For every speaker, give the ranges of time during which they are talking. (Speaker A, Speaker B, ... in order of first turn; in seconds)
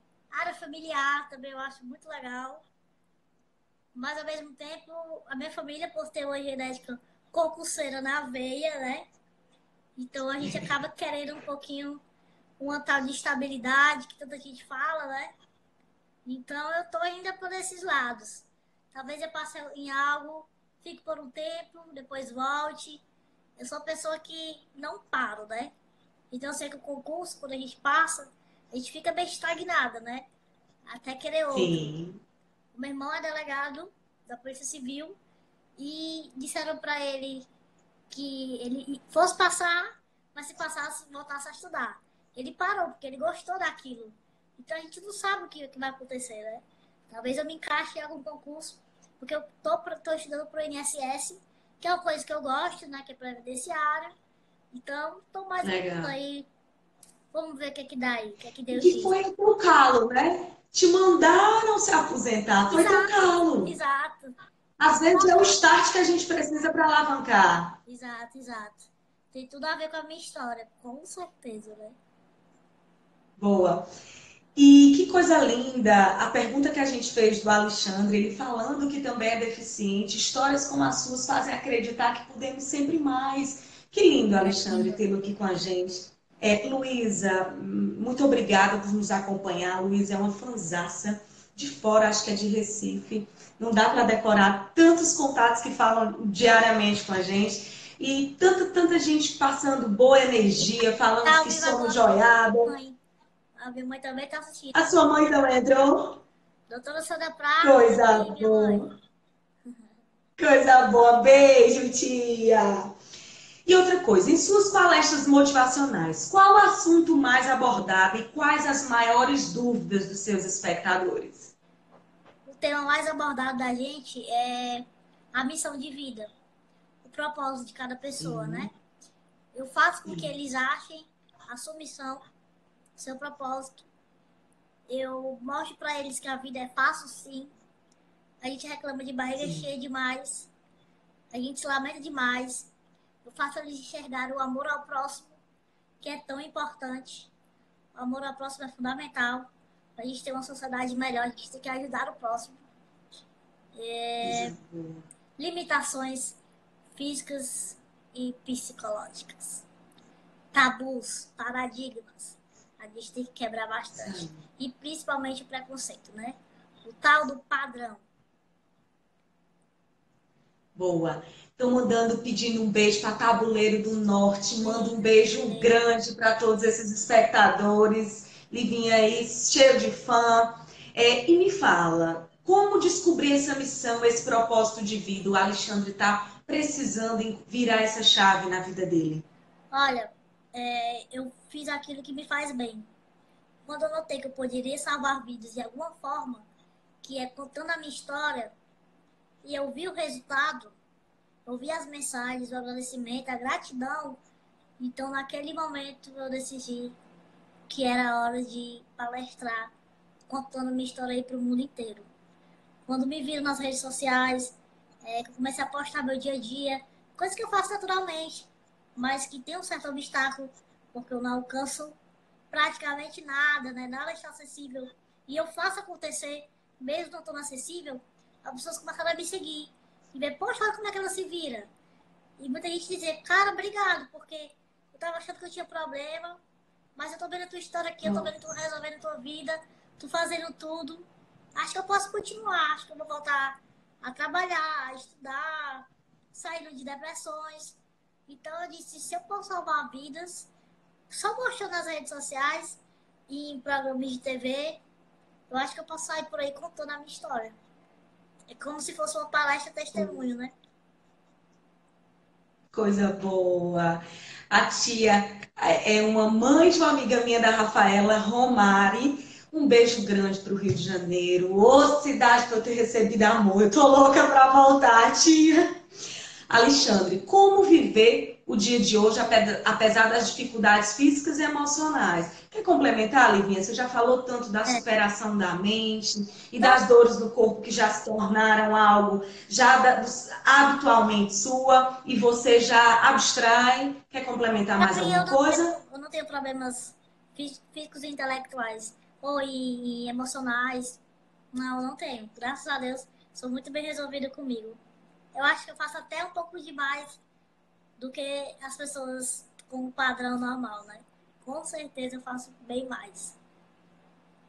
Speaker A: 0.3-2.6, 4.0-9.1, 10.0-12.0, 12.6-15.3, 16.2-23.0, 23.6-25.7, 26.3-30.3, 30.9-31.9, 32.7-35.2, 35.8-37.5, 38.1-54.1, 54.7-56.5, 57.3-59.1, 62.7-64.4, 65.1-65.6, 67.9-72.0, 84.4-85.0, 101.2-103.0, 103.6-104.9, 106.7-108.9, 122.5-126.3, 127.0-128.7, 129.5-132.2, 133.0-133.9, 134.9-137.5, 138.4-140.5, 141.3-142.7, 143.2-145.3, 146.0-147.3, 147.9-152.6, 153.7-154.5, 155.4-156.4, 156.9-159.7, 160.5-168.0, 174.6-175.8, 189.7-192.9, 193.7-196.5, 197.0-198.5, 199.4-200.8, 201.5-204.2, 204.8-207.0, 207.7-209.7, 210.3-212.1, 212.9-222.0, 222.5-231.7, 232.4-236.4, 237.0-250.5, 251.1-254.8, 255.5-257.6, 258.5-260.5, 294.8-301.0, 301.5-304.8, 305.4-307.2, 308.0-313.4
Speaker B: 31.5-32.2, 55.6-56.1, 58.7-63.8, 64.8-67.8, 73.4-73.9, 74.6-102.8, 104.7-106.2, 107.6-108.9, 110.4-112.9, 113.7-121.5, 128.2-128.7, 130.1-130.3, 139.4-139.7, 154.2-155.1, 164.0-164.5, 170.8-189.3, 238.0-238.3, 262.7-275.7, 276.5-295.8